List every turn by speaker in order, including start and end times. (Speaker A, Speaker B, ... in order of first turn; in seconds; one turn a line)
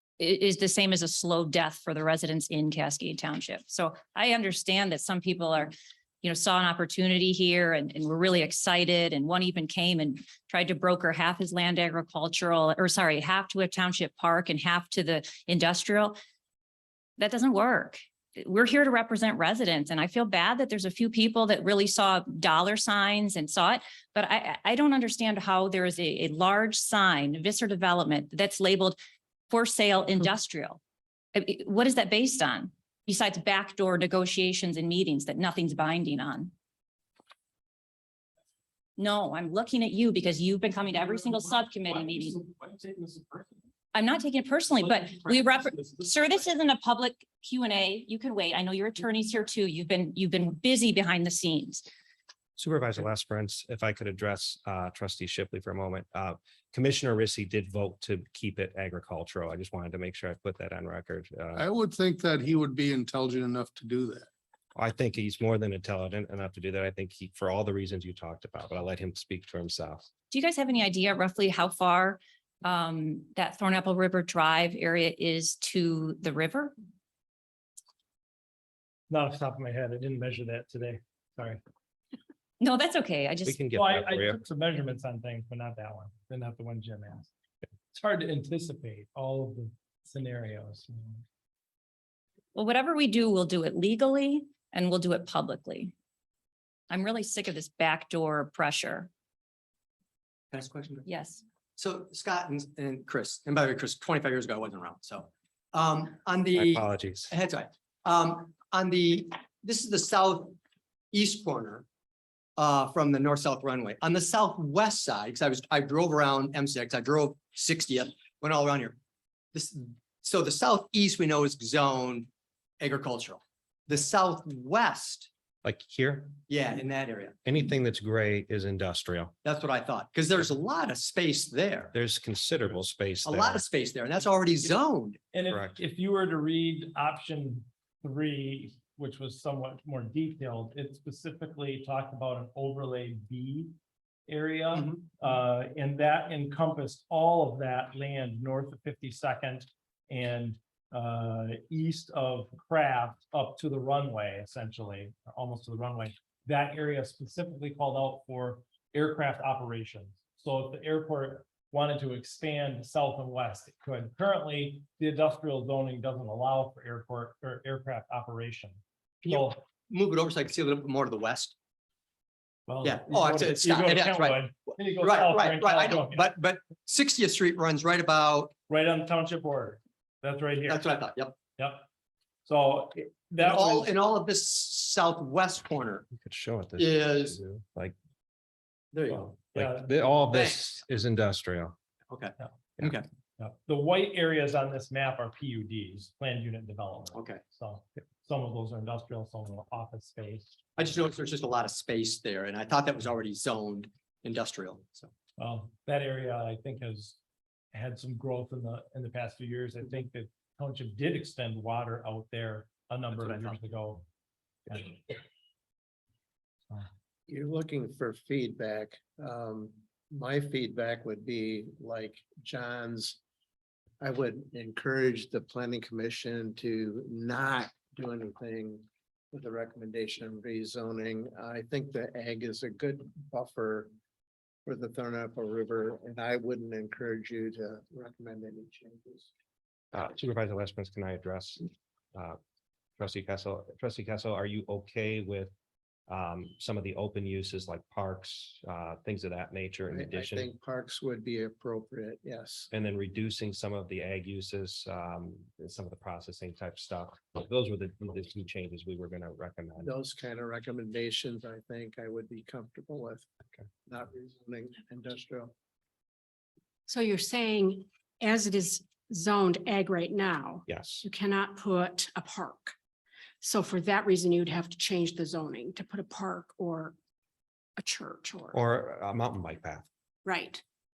Speaker A: 0.2-16.2
Speaker A: 17.2-29.0
Speaker A: 29.5-30.8
Speaker A: 31.3-36.5
Speaker A: 39.0-42.4
Speaker A: 43.9-51.9
Speaker B: 52.6-61.6
Speaker C: 61.5-64.3
Speaker B: 64.8-70.1
Speaker A: 70.3-76.7
Speaker D: 79.1-81.6
Speaker A: 82.6-83.6
Speaker B: 83.5-84.4
Speaker D: 83.7-87.3
Speaker D: 87.9-91.2
Speaker A: 92.5-95.9
Speaker A: 96.9-99.1
Speaker E: 100.5-101.0
Speaker A: 101.0-101.4
Speaker E: 101.8-110.6
Speaker B: 106.5-107.3
Speaker E: 111.1-111.8
Speaker E: 112.6-119.0
Speaker E: 119.5-122.3
Speaker E: 122.8-125.3
Speaker B: 125.6-126.4
Speaker E: 126.5-127.4
Speaker B: 127.4-129.3
Speaker E: 129.4-131.9
Speaker B: 131.9-133.6
Speaker E: 133.2-135.2
Speaker D: 135.3-143.7
Speaker B: 135.5-135.8
Speaker D: 144.3-169.6
Speaker E: 144.7-145.0
Speaker E: 169.2-171.5
Speaker D: 172.7-176.3
Speaker E: 172.8-174.4
Speaker E: 175.0-178.5
Speaker D: 178.7-180.8
Speaker E: 180.7-181.3
Speaker D: 181.6-181.9
Speaker D: 182.4-183.9
Speaker E: 183.4-186.1
Speaker B: 186.1-187.9
Speaker E: 186.8-187.4
Speaker E: 188.9-189.4
Speaker B: 189.3-191.8
Speaker D: 189.5-189.9
Speaker E: 190.3-190.6
Speaker E: 192.1-193.1
Speaker D: 193.4-200.5
Speaker E: 197.1-197.4
Speaker E: 200.8-205.1
Speaker D: 205.4-207.2
Speaker D: 207.7-214.0
Speaker E: 213.1-213.6
Speaker D: 214.7-215.0
Speaker F: 217.3-223.2
Speaker F: 224.0-233.9
Speaker F: 234.6-239.3
Speaker B: 239.9-242.4
Speaker B: 243.0-245.5
Speaker B: 246.1-250.5
Speaker F: 249.9-252.7
Speaker B: 252.7-259.9
Speaker F: 259.8-263.3
Speaker F: 263.9-265.5
Speaker G: 266.9-272.7
Speaker B: 270.7-271.0
Speaker G: 273.4-276.9
Speaker G: 277.8-278.6
Speaker B: 278.5-279.9
Speaker G: 280.2-280.6